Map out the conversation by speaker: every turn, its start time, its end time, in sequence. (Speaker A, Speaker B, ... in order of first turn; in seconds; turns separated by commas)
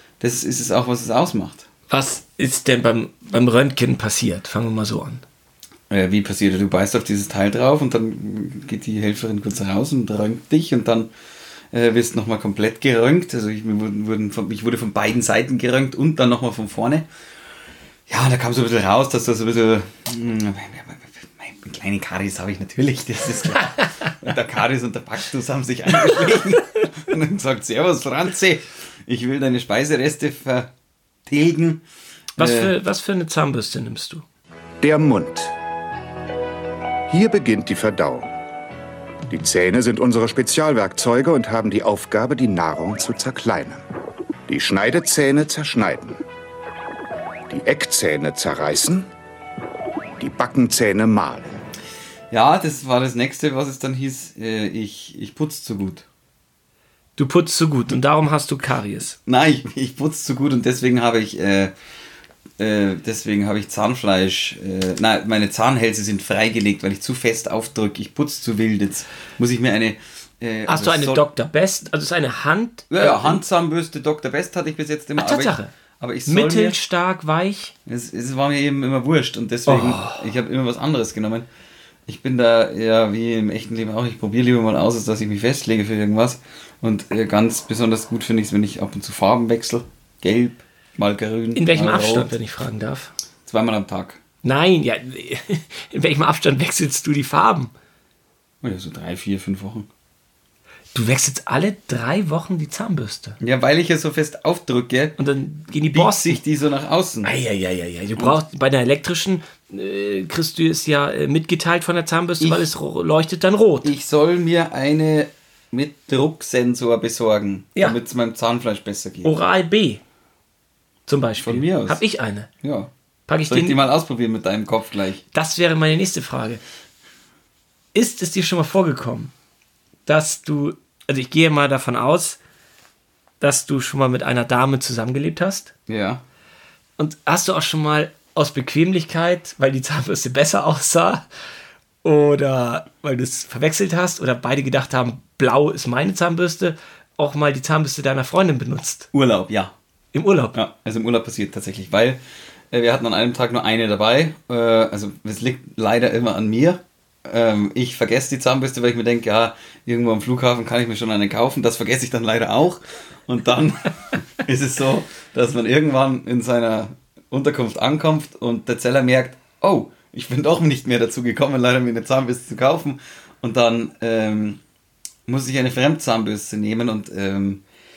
Speaker A: 0.2-1.7, Speaker B: 1.9-5.2, Speaker A: 5.9-11.1, Speaker A: 11.7-17.1, Speaker A: 18.1-30.7, Speaker A: 31.3-31.8, Speaker B: 32.4-34.2, Speaker A: 32.4-32.7, Speaker C: 34.8-35.5, Speaker C: 37.1-38.3, Speaker C: 39.3-43.8, Speaker C: 44.5-46.2, Speaker C: 47.5-49.1, Speaker C: 50.2-51.6, Speaker A: 52.3-56.0, Speaker B: 57.2-59.2, Speaker A: 59.3-61.7, Speaker A: 62.6-71.2, Speaker B: 70.7-73.4, Speaker A: 72.9-76.8, Speaker B: 75.2-75.7, Speaker B: 76.3-77.7, Speaker A: 77.9-81.5, Speaker B: 79.7-80.2, Speaker A: 82.1-92.3, Speaker B: 91.5-93.1, Speaker A: 93.5-94.2, Speaker B: 94.4-97.7, Speaker A: 98.6-99.9, Speaker B: 100.9-103.4, Speaker A: 103.4-105.2, Speaker B: 105.2-106.4, Speaker A: 105.9-107.3, Speaker B: 107.2-113.9, Speaker A: 112.4-112.7, Speaker A: 113.8-119.3, Speaker B: 119.2-120.0, Speaker B: 121.1-122.5, Speaker A: 121.4-122.0, Speaker A: 122.6-122.9, Speaker B: 123.3-123.8, Speaker A: 123.5-125.2, Speaker B: 125.3-126.6, Speaker B: 127.9-129.3, Speaker B: 130.1-132.4, Speaker B: 133.4-135.7, Speaker A: 135.9-136.2, Speaker B: 137.0-141.2, Speaker B: 142.0-149.1, Speaker A: 149.1-149.7, Speaker B: 150.1-150.6, Speaker A: 150.6-152.2, Speaker A: 152.7-174.6, Speaker A: 175.3-177.6